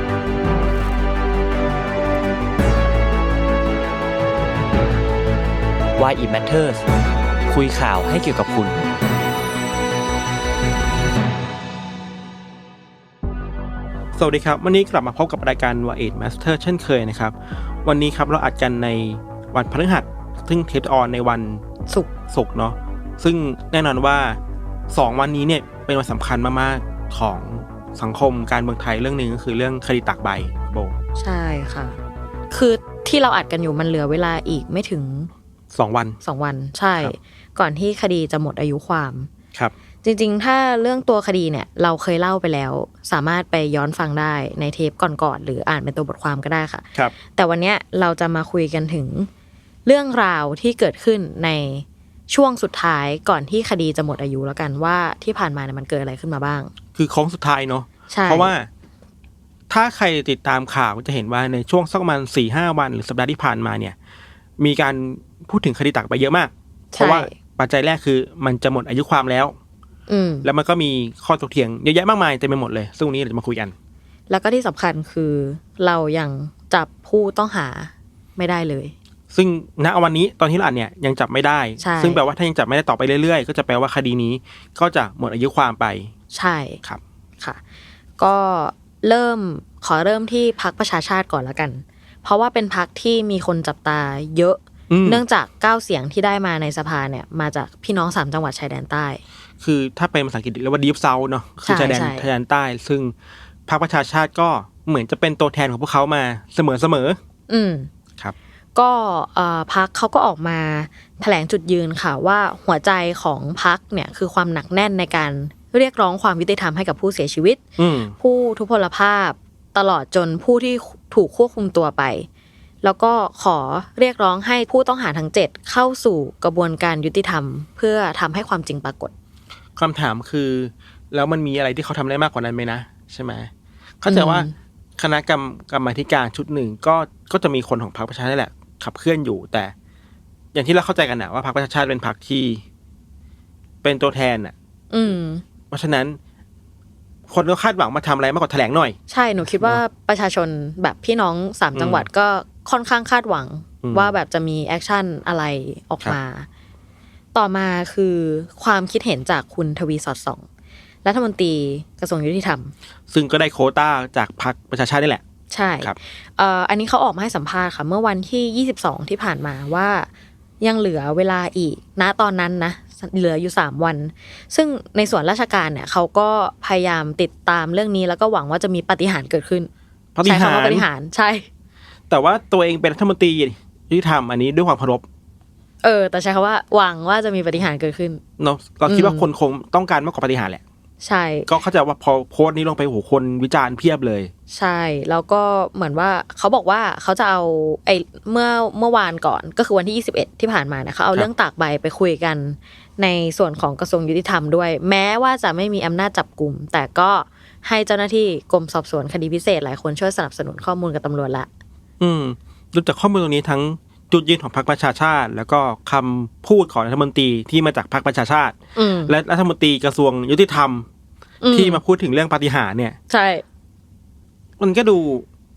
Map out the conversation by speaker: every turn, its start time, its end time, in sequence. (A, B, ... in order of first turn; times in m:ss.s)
0:06.0-0:06.9 A
0:07.5-0:08.8 A
0:14.2-0:21.6 B
0:22.3-0:24.4 B
0:24.9-0:31.0 B
0:31.2-0:32.0 C
0:32.5-0:35.3 C
0:35.7-0:36.2 B
0:36.2-0:39.3 C
0:40.0-0:49.3 C
0:49.8-0:56.7 C
0:57.0-0:58.7 B
0:58.1-0:58.5 C
0:59.7-1:04.0 B
1:04.6-1:09.5 B
1:06.9-1:07.3 C
1:10.1-1:10.5 C
1:10.4-1:13.7 B
1:14.3-1:19.0 C
1:19.3-1:26.1 B
1:21.8-1:22.2 C
1:26.3-1:26.8 C
1:28.2-1:39.2 C
1:34.9-1:35.2 B
1:39.6-1:43.1 B
1:41.6-1:42.3 C
1:43.7-1:47.2 B
1:47.5-1:47.9 C
1:48.8-1:57.6 C
1:57.8-1:58.2 B
1:58.2-2:02.3 C
2:02.8-2:09.1 C
2:09.8-2:13.5 B
2:14.0-2:19.7 B
2:14.1-2:14.6 C
2:20.5-2:22.6 B
2:23.8-2:24.5 B
2:24.9-2:25.4 C
2:25.7-2:26.2 B
2:27.3-2:29.8 B
2:29.1-2:36.5 C
2:31.8-2:32.1 B
2:33.8-2:34.2 B
2:37.3-2:40.4 C
2:41.0-2:42.7 C
2:43.1-2:45.2 B
2:45.5-2:50.1 C
2:50.6-2:59.7 C
3:00.2-3:00.9 B
3:00.2-3:01.5 C
3:02.1-3:05.0 B
3:05.8-3:08.2 C
3:08.4-3:10.6 B
3:08.9-3:09.3 C
3:11.0-3:11.5 C
3:11.5-3:14.3 B
3:14.5-3:31.5 C
3:32.0-3:40.9 B
3:38.8-3:39.1 C
3:41.4-3:41.8 C
3:41.5-3:43.0 B
3:43.1-3:43.4 C
3:44.6-3:45.3 B